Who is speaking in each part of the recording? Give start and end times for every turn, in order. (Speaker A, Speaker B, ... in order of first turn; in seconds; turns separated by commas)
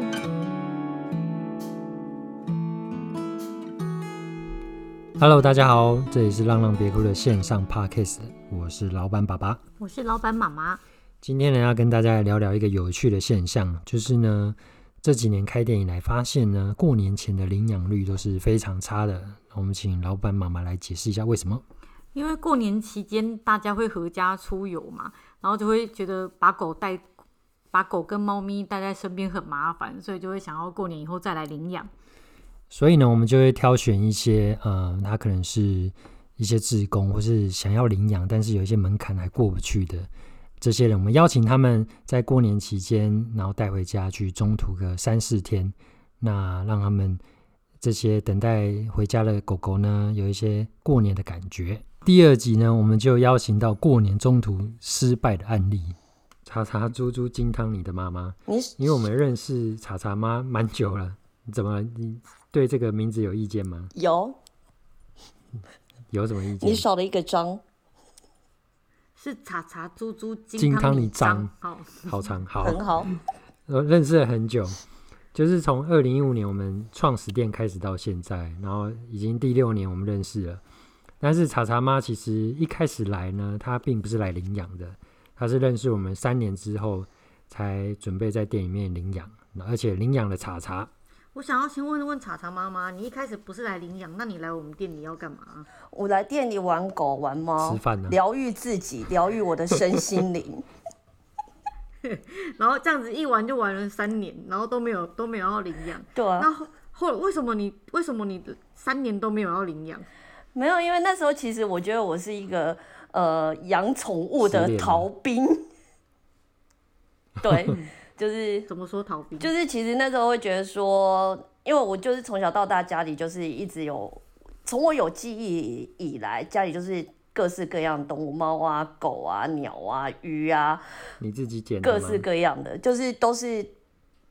Speaker A: 5.2-9.6, Speaker B: 9.8-10.8, Speaker A: 11.2-21.6, Speaker B: 22.1-27.1, Speaker B: 27.7-31.9, Speaker A: 32.7-40.1, Speaker A: 40.6-47.2, Speaker A: 47.8-63.9, Speaker C: 58.5-58.9, Speaker C: 63.9-64.4, Speaker A: 66.1-66.8, Speaker C: 66.6-67.6, Speaker B: 69.2-72.2, Speaker A: 70.6-71.5, Speaker A: 72.0-72.8, Speaker C: 72.6-73.1, Speaker A: 73.7-74.8, Speaker A: 75.3-80.6, Speaker A: 81.2-90.9, Speaker B: 91.3-95.7, Speaker C: 95.9-100.6, Speaker A: 97.6-98.2, Speaker B: 102.0-110.1, Speaker C: 106.1-106.5, Speaker C: 110.5-115.6, Speaker A: 114.4-115.1, Speaker C: 117.4-118.7, Speaker B: 118.7-119.5, Speaker C: 119.4-130.8, Speaker A: 131.2-132.2, Speaker C: 131.8-133.7